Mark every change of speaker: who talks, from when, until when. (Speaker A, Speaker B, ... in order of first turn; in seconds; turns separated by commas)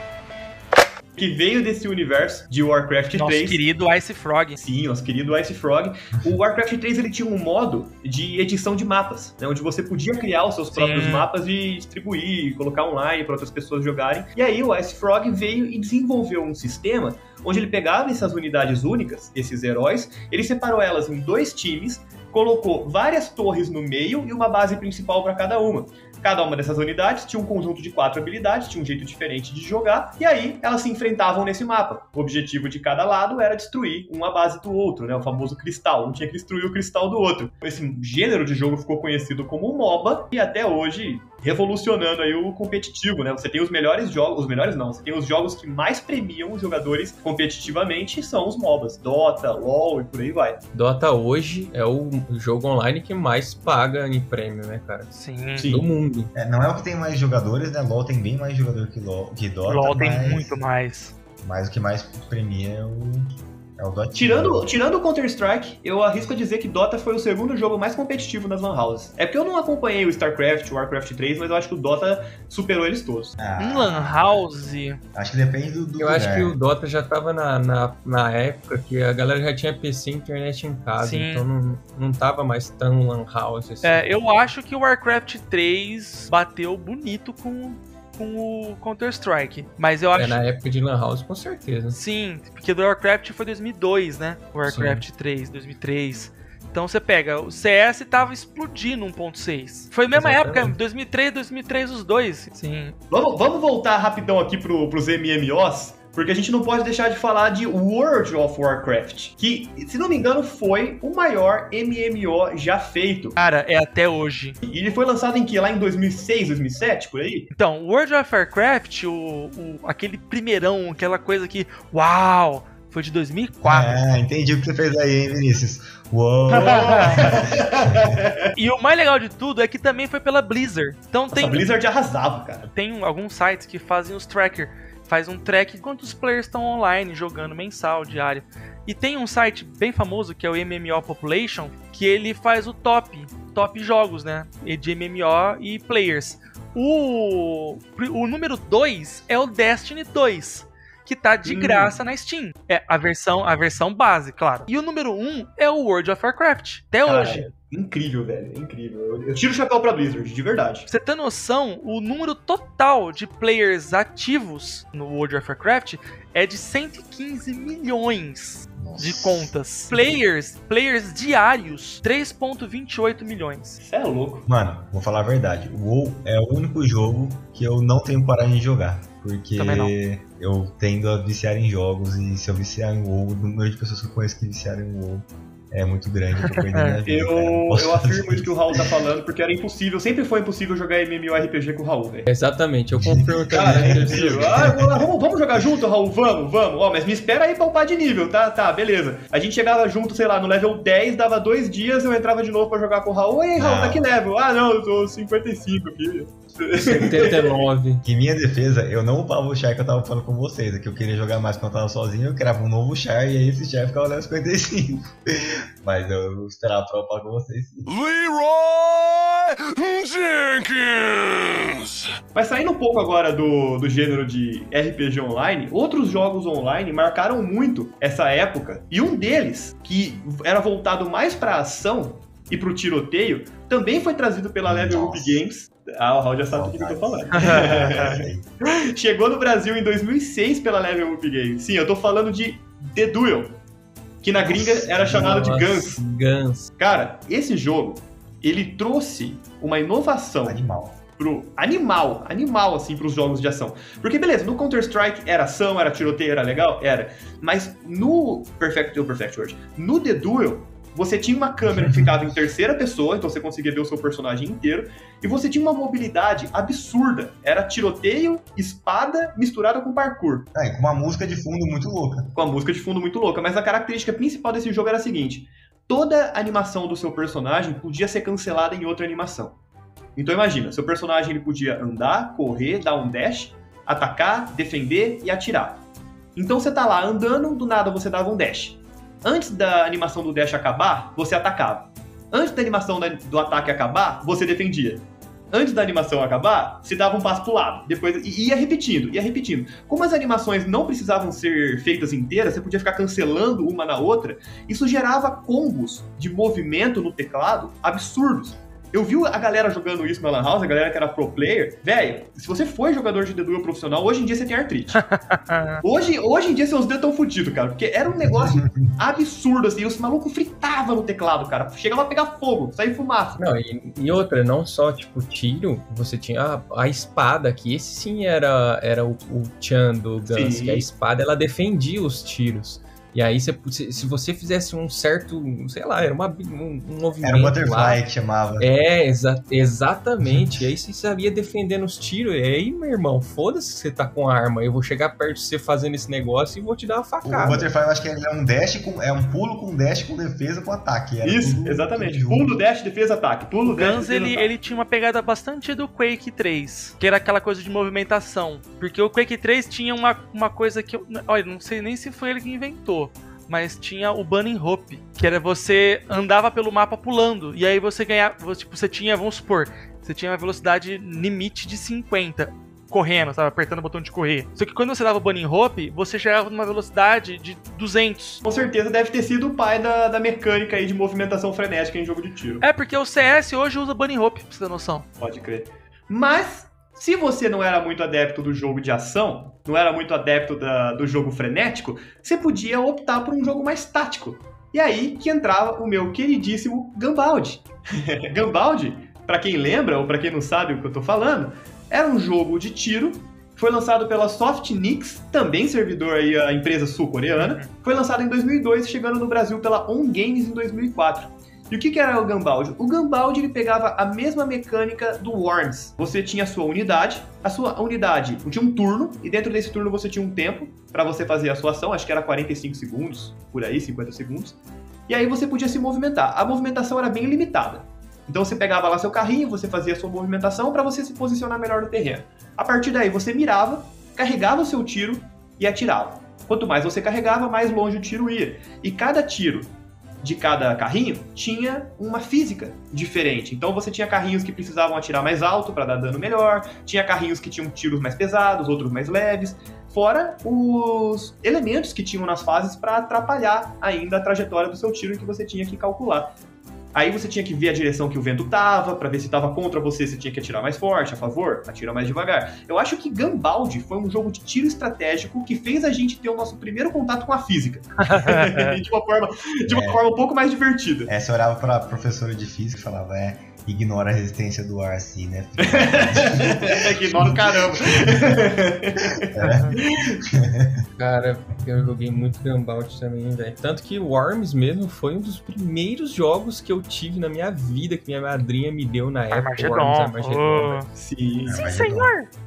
Speaker A: 1.2-3.6, Speaker B: 3.1-4.6, Speaker A: 4.6-50.6, Speaker B: 10.7-11.3, Speaker C: 50.7-55.1, Speaker B: 55.1-55.8, Speaker A: 55.6-55.8, Speaker C: 55.7-56.3, Speaker D: 56.3-60.6, Speaker B: 59.7-61.1, Speaker D: 61.4-64.7, Speaker A: 64.2-73.4, Speaker D: 73.4-74.4, Speaker B: 73.6-75.0, Speaker D: 75.1-76.6, Speaker C: 76.0-84.0, Speaker B: 81.0-81.5, Speaker B: 83.8-90.4, Speaker C: 90.2-92.0, Speaker B: 91.9-102.9, Speaker C: 94.7-95.0, Speaker C: 100.1-100.8, Speaker A: 103.1-113.4, Speaker B: 113.4-114.6, Speaker A: 114.6-117.5, Speaker B: 117.5-124.0, Speaker D: 123.6-128.2, Speaker A: 126.5-128.5, Speaker B: 126.6-127.2, Speaker B: 128.6-131.7, Speaker A: 131.3-132.7, Speaker B: 132.7-157.5, Speaker A: 151.4-151.9, Speaker A: 157.1-160.9, Speaker B: 160.9-173.8, Speaker D: 168.8-169.5, Speaker A: 173.8-174.5, Speaker D: 174.5-188.9, Speaker B: 179.6-179.9, Speaker B: 186.6-187.0, Speaker A: 187.1-192.3, Speaker C: 192.3-194.6, Speaker D: 193.0-195.0, Speaker A: 193.5-207.6, Speaker D: 203.6-204.1, Speaker C: 206.7-208.0, Speaker D: 208.0-217.9, Speaker E: 217.9-222.1, Speaker A: 222.3-243.6, Speaker D: 234.7-235.4, Speaker D: 236.5-238.4, Speaker B: 237.4-238.0, Speaker A: 244.2-246.0, Speaker D: 244.4-245.6, Speaker C: 245.1-246.7, Speaker A: 246.8-250.6, Speaker D: 250.4-251.0, Speaker A: 251.2-270.5, Speaker D: 261.7-262.1, Speaker D: 270.5-272.3, Speaker A: 272.3-279.6, Speaker A: 280.2-285.8, Speaker A: 286.4-315.0, Speaker B: 315.0-315.8, Speaker A: 315.8-323.4, Speaker D: 318.2-318.9, Speaker C: 323.4-338.0, Speaker A: 330.3-330.9, Speaker D: 337.2-338.7, Speaker C: 338.6-347.7, Speaker D: 347.2-352.6, Speaker A: 351.2-354.5, Speaker B: 353.7-378.4, Speaker A: 378.4-382.6, Speaker B: 382.6-385.1, Speaker A: 385.2-424.6, Speaker B: 407.4-407.7, Speaker A: 425.1-456.3, Speaker A: 456.9-471.1, Speaker B: 468.1-468.8, Speaker D: 469.7-470.0, Speaker D: 471.1-478.2, Speaker A: 475.6-480.2, Speaker D: 479.2-480.8, Speaker C: 481.0-490.8, Speaker B: 489.3-490.9, Speaker A: 491.0-491.6, Speaker D: 491.5-492.1, Speaker B: 491.5-492.3